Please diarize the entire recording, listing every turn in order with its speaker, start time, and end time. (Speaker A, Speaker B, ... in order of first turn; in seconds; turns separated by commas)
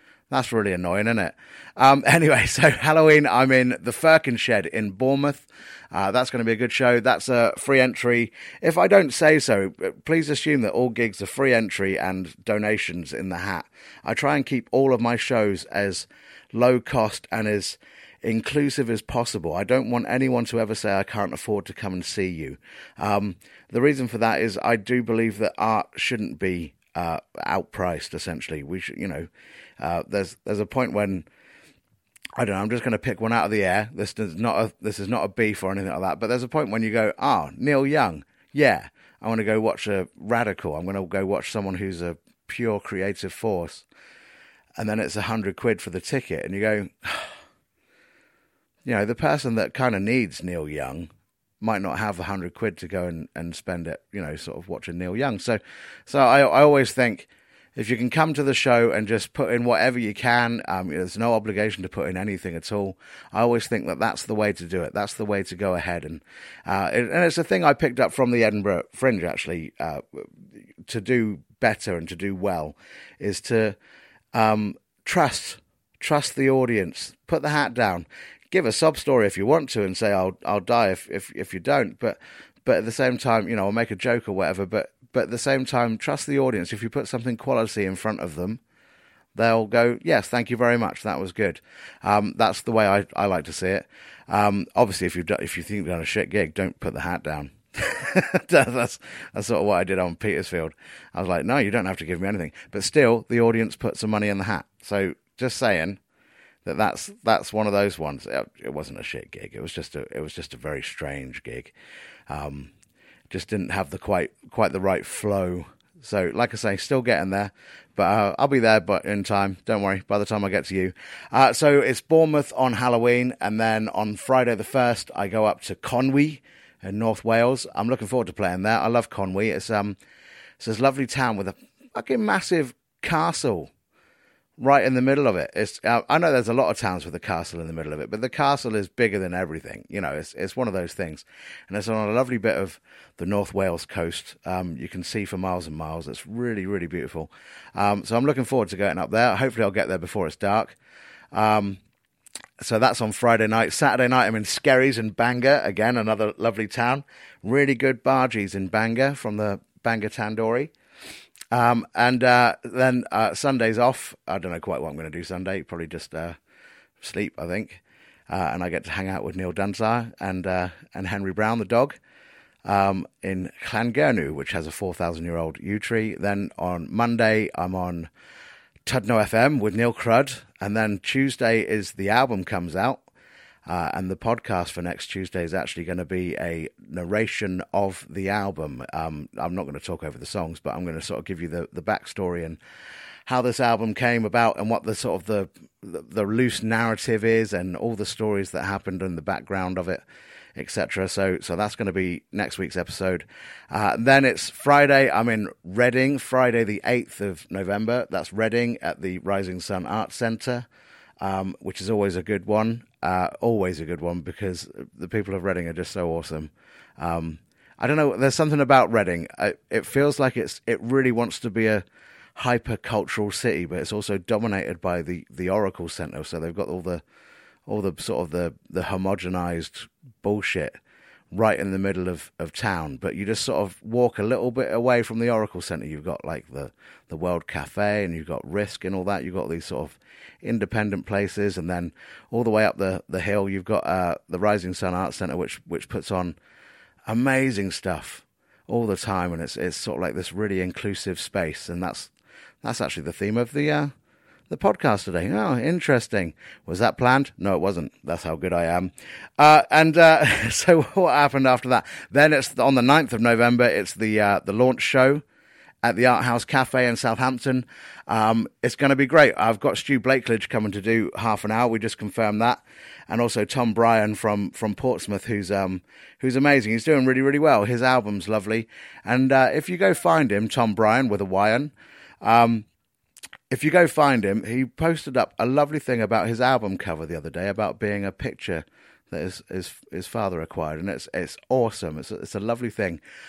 Speaker A: 0.3-29.3, Speaker A: 29.8-31.2, Speaker A: 32.4-43.8, Speaker A: 44.8-47.3, Speaker A: 48.8-51.1, Speaker A: 51.6-70.2, Speaker A: 70.8-73.8, Speaker A: 74.3-88.6, Speaker A: 89.3-106.0, Speaker A: 106.6-111.7, Speaker A: 112.3-112.7, Speaker A: 113.3-130.0, Speaker A: 130.6-133.7, Speaker A: 134.6-150.8, Speaker A: 151.3-151.8, Speaker A: 152.6-160.7, Speaker A: 161.5-166.4, Speaker A: 167.0-172.0, Speaker A: 172.6-178.1, Speaker A: 178.8-183.0, Speaker A: 183.7-192.6, Speaker A: 193.2-200.0, Speaker A: 200.6-210.7, Speaker A: 211.2-221.8, Speaker A: 222.3-227.0, Speaker A: 227.7-230.8, Speaker A: 231.3-246.3, Speaker A: 247.1-252.1, Speaker A: 252.6-253.9, Speaker A: 254.5-265.2, Speaker A: 265.8-282.6, Speaker A: 283.5-293.0